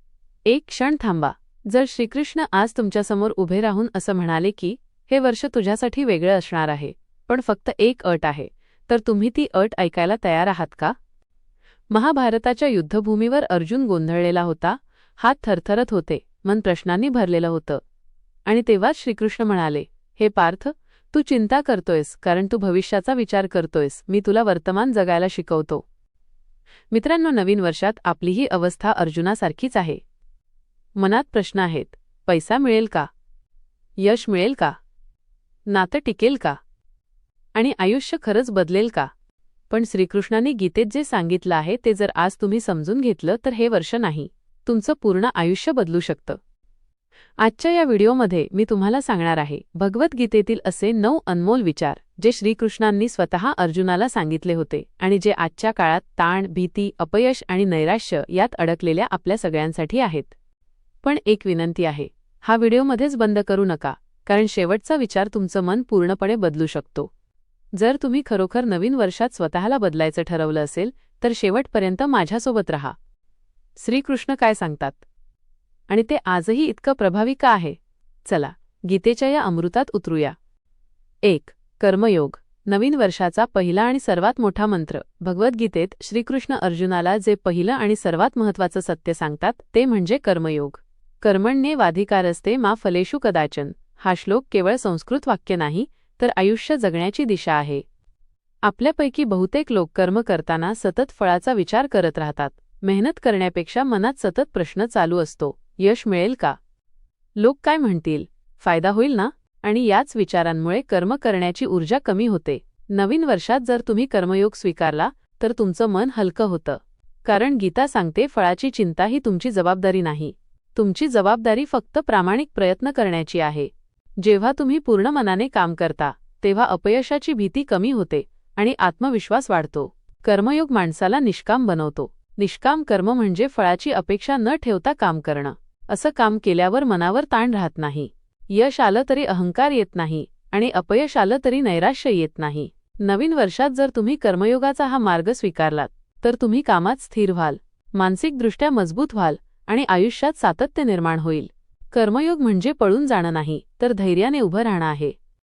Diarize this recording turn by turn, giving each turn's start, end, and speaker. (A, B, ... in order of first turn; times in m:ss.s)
0:00.5-0:11.0 A
0:11.9-0:17.8 A
0:18.5-0:25.8 A
0:26.9-0:30.0 A
0:31.0-0:33.1 A
0:34.0-0:34.8 A
0:35.7-0:36.6 A
0:37.6-0:39.1 A
0:39.7-0:46.4 A
0:47.4-1:00.3 A
1:01.0-1:07.1 A
1:07.8-1:13.0 A
1:13.8-1:15.0 A
1:15.9-1:20.4 A
1:21.2-1:37.8 A
1:38.6-1:46.6 A
1:47.4-2:35.2 A